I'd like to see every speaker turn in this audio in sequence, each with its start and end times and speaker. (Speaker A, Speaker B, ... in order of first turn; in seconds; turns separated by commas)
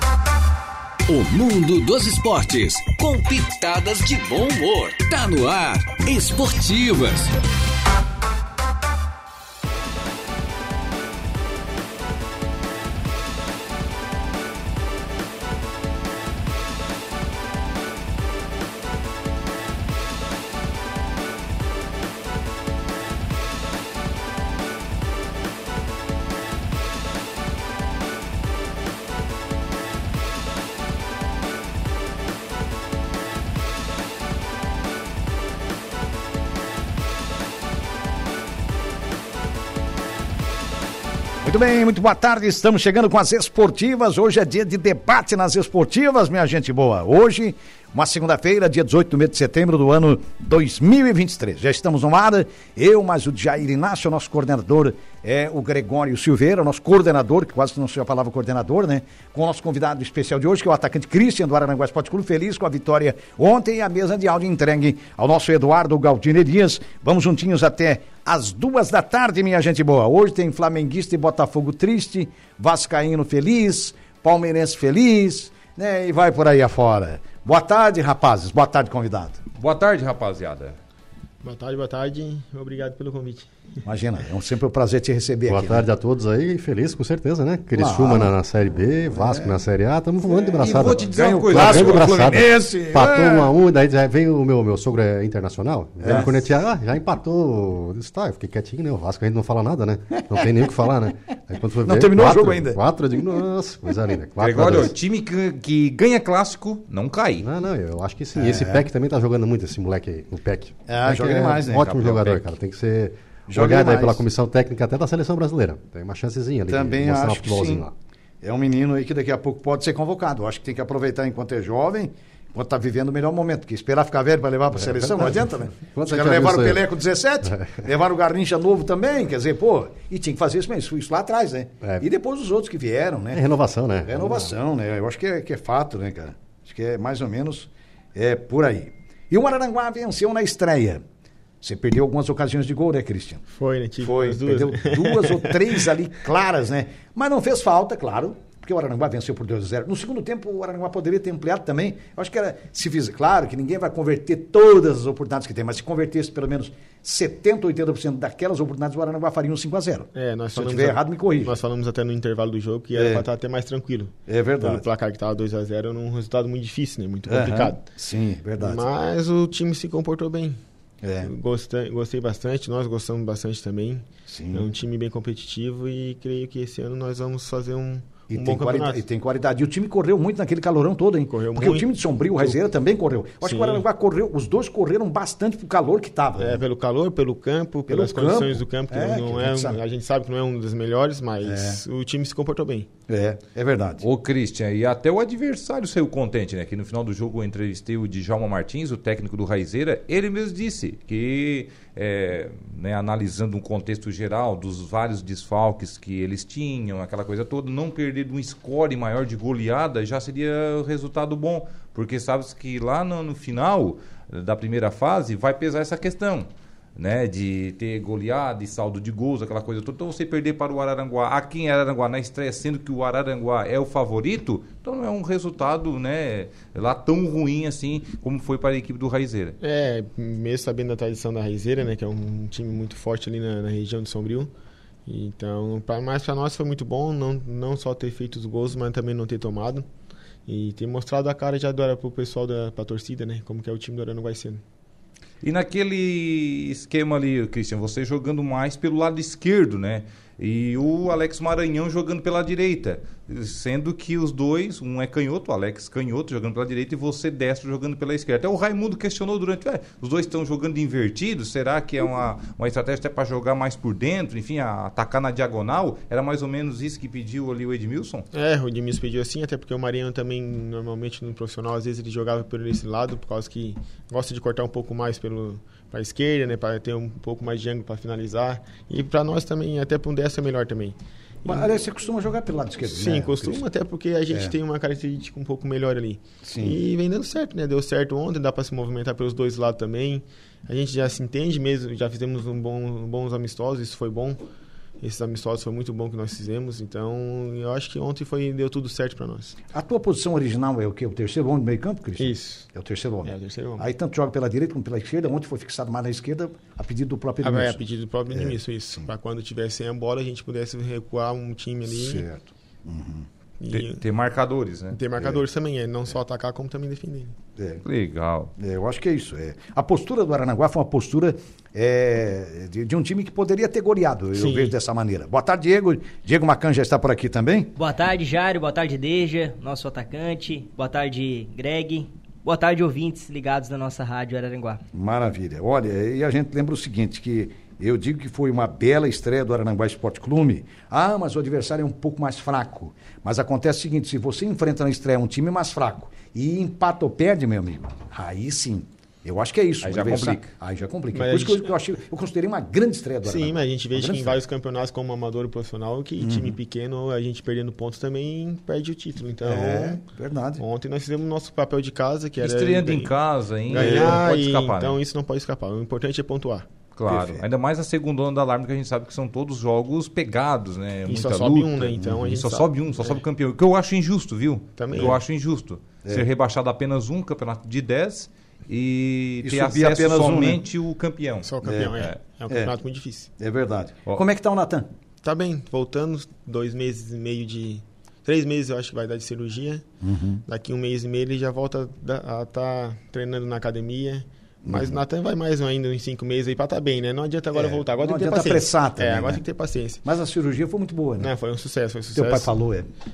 Speaker A: 1.1-7.3, Speaker B: 41.4-79.4, Speaker C: 79.6-80.8, Speaker D: 81.4-83.5, Speaker B: 83.8-85.8, Speaker E: 85.5-104.9, Speaker B: 87.8-88.3, Speaker B: 88.9-89.6, Speaker B: 90.2-93.5, Speaker C: 90.6-92.1, Speaker B: 96.0-96.4, Speaker B: 101.8-102.8, Speaker C: 104.4-107.5, Speaker E: 107.4-117.9, Speaker B: 108.3-108.8, Speaker B: 110.9-111.8, Speaker C: 111.8-112.4, Speaker B: 113.5-114.2, Speaker B: 116.7-117.8, Speaker B: 118.4-133.4, Speaker E: 124.7-126.8, Speaker E: 127.4-127.8, Speaker E: 133.3-134.5, Speaker B: 134.0-141.0, Speaker B: 141.6-143.4, Speaker D: 143.5-145.9, Speaker B: 144.0-161.5, Speaker D: 160.1-167.8, Speaker B: 162.9-163.2, Speaker B: 164.3-164.8, Speaker B: 167.3-168.9, Speaker D: 168.6-170.6, Speaker B: 171.0-171.3, Speaker D: 171.2-179.0, Speaker B: 174.3-174.7, Speaker B: 178.3-186.6, Speaker D: 181.3-182.6, Speaker D: 183.4-183.8, Speaker D: 186.4-192.9, Speaker B: 187.9-189.8, Speaker B: 191.4-191.8, Speaker B: 193.1-194.0, Speaker C: 194.0-229.6, Speaker D: 229.6-234.5, Speaker D: 235.1-239.8, Speaker D: 240.4-244.6, Speaker C: 245.4-268.2, Speaker D: 268.3-281.7, Speaker B: 281.4-283.6, Speaker D: 282.9-294.4, Speaker B: 286.4-286.8, Speaker D: 295.0-299.6, Speaker B: 299.7-307.8, Speaker D: 302.2-302.7, Speaker D: 303.2-303.9, Speaker D: 307.4-312.2, Speaker B: 308.3-309.1, Speaker B: 311.9-313.2, Speaker D: 313.6-314.0, Speaker C: 313.7-315.0, Speaker D: 314.9-317.3, Speaker B: 317.6-317.8, Speaker C: 317.8-318.5, Speaker B: 318.6-327.7, Speaker D: 324.3-324.7, Speaker F: 327.8-334.8, Speaker B: 334.9-354.4, Speaker C: 349.8-350.5, Speaker D: 351.1-351.7, Speaker D: 353.2-360.0, Speaker B: 356.2-356.5, Speaker B: 359.4-360.6, Speaker D: 360.6-363.1, Speaker C: 362.4-365.0, Speaker D: 363.7-366.7, Speaker B: 363.7-364.2, Speaker C: 366.9-382.2, Speaker B: 367.1-367.4, Speaker D: 371.1-373.2, Speaker D: 374.8-375.2, Speaker B: 379.4-380.6, Speaker D: 381.4-383.3, Speaker B: 381.6-382.7, Speaker B: 383.4-384.9, Speaker D: 385.2-389.8, Speaker B: 390.0-390.4, Speaker D: 390.4-400.0, Speaker B: 394.6-394.9, Speaker B: 397.5-399.4, Speaker B: 400.0-401.3, Speaker D: 401.2-402.5, Speaker B: 402.1-402.9